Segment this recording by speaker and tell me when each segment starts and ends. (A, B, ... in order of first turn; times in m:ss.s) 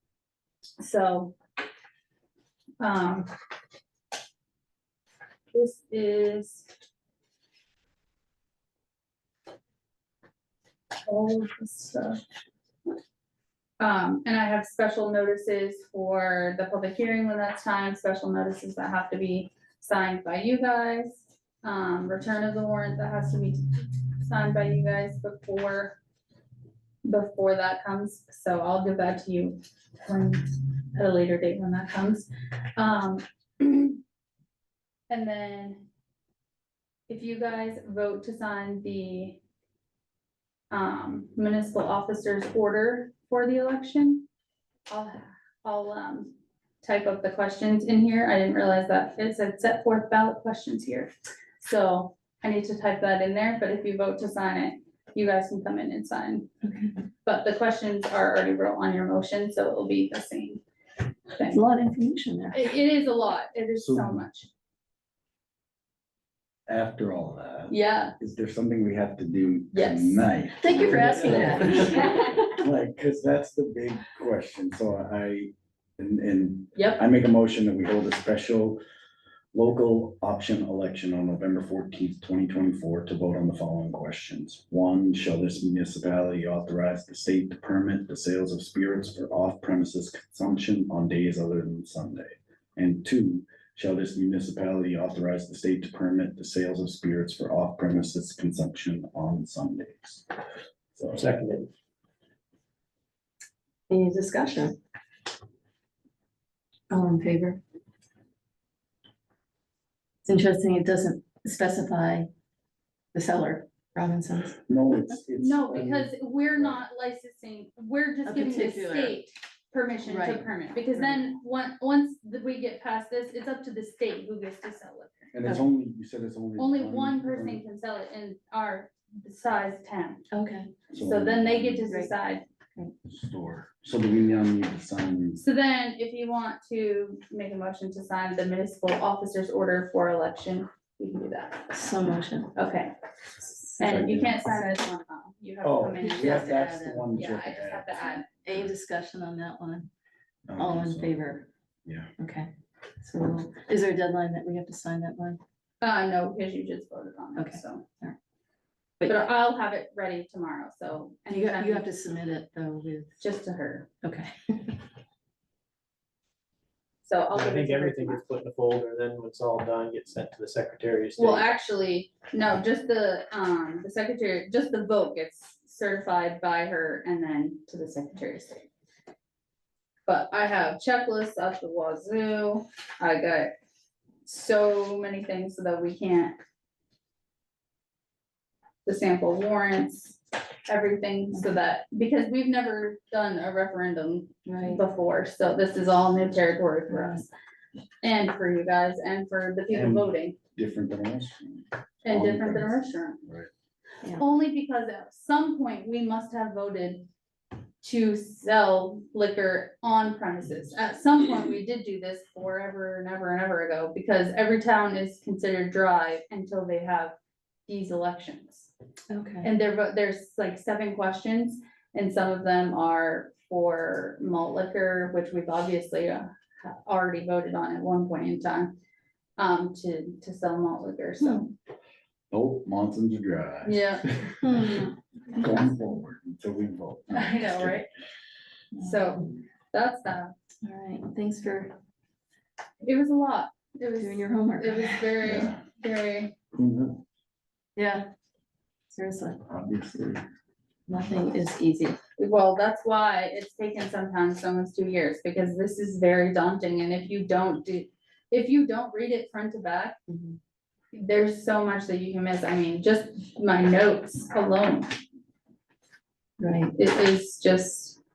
0:00.8-0:01.4 A
0:02.8-0:03.3 A
0:05.5-0:06.7 A
0:11.1-0:12.2 A
0:13.8-0:26.0 A
0:27.0-0:34.0 A
0:35.1-0:35.8 A
0:37.1-0:39.4 A
0:40.7-0:44.3 A
0:44.9-0:56.5 A
0:56.6-0:56.9 B
0:57.2-1:00.6 A
1:01.3-1:01.6 A
1:01.4-1:02.7 B
1:02.5-1:04.5 A
1:03.8-1:04.2 C
1:06.7-1:18.8 C
1:07.7-1:08.1 A
1:09.7-1:10.3 A
1:10.6-1:12.2 B
1:16.8-1:17.0 A
1:19.5-1:40.3 C
1:40.9-1:41.3 C
1:41.1-1:41.7 D
1:43.9-1:44.8 B
1:46.9-1:47.6 B
1:50.2-1:52.3 B
1:53.1-1:54.6 B
1:54.7-1:56.8 C
1:55.4-2:05.3 A
1:58.2-1:59.2 B
2:00.0-2:01.2 B
2:05.3-2:07.6 C
2:06.6-2:10.2 A
2:10.3-2:10.8 B
2:10.9-2:11.9 C
2:10.9-2:12.4 A
2:13.0-2:15.4 C
2:15.4-2:21.7 A
2:21.7-2:22.5 B
2:22.6-2:22.9 A
2:23.7-2:24.7 B
2:23.8-2:28.2 A
2:23.8-2:24.4 C
2:25.6-2:28.7 C
2:26.0-2:27.1 B
2:28.4-2:29.9 B
2:30.5-2:31.2 C
2:30.6-2:31.5 B
2:31.8-2:32.1 C
2:32.2-2:35.4 B
2:35.8-2:37.8 A
2:37.4-2:38.2 B
2:39.0-2:41.9 A
2:41.3-2:43.2 B
2:43.2-2:43.9 A
2:44.0-2:44.8 B
2:47.0-2:48.2 A
2:47.3-2:51.5 D
2:51.2-2:58.7 A
3:00.1-3:03.5 A
3:04.2-3:06.4 A
3:08.8-3:17.3 A
3:14.4-3:14.8 B
3:16.9-3:17.2 B
3:18.0-3:20.4 A
3:19.7-3:23.5 C
3:22.0-3:23.2 A
3:24.1-3:27.0 A
3:27.8-3:37.1 A
3:37.7-3:38.7 A
3:39.1-3:39.5 B
3:39.4-3:48.7 A
3:49.4-3:51.5 A
3:51.2-3:51.4 B
3:52.3-3:54.3 C
3:53.6-3:54.9 A
3:54.4-3:54.8 B
3:55.3-3:57.8 C
3:57.1-3:57.9 A
3:58.7-3:59.3 B
3:58.8-4:00.3 A
4:00.6-4:01.7 B
4:02.8-4:06.3 A
4:04.0-4:05.2 B
4:05.2-4:05.6 C
4:06.5-4:07.0 C
4:07.8-4:08.1 B
4:08.9-4:09.4 B
4:09.4-4:10.2 C
4:10.9-4:12.0 B
4:12.2-4:20.0 A
4:20.1-4:20.4 B
4:20.9-4:25.0 A
4:26.4-4:26.7 B
4:26.8-4:28.0 A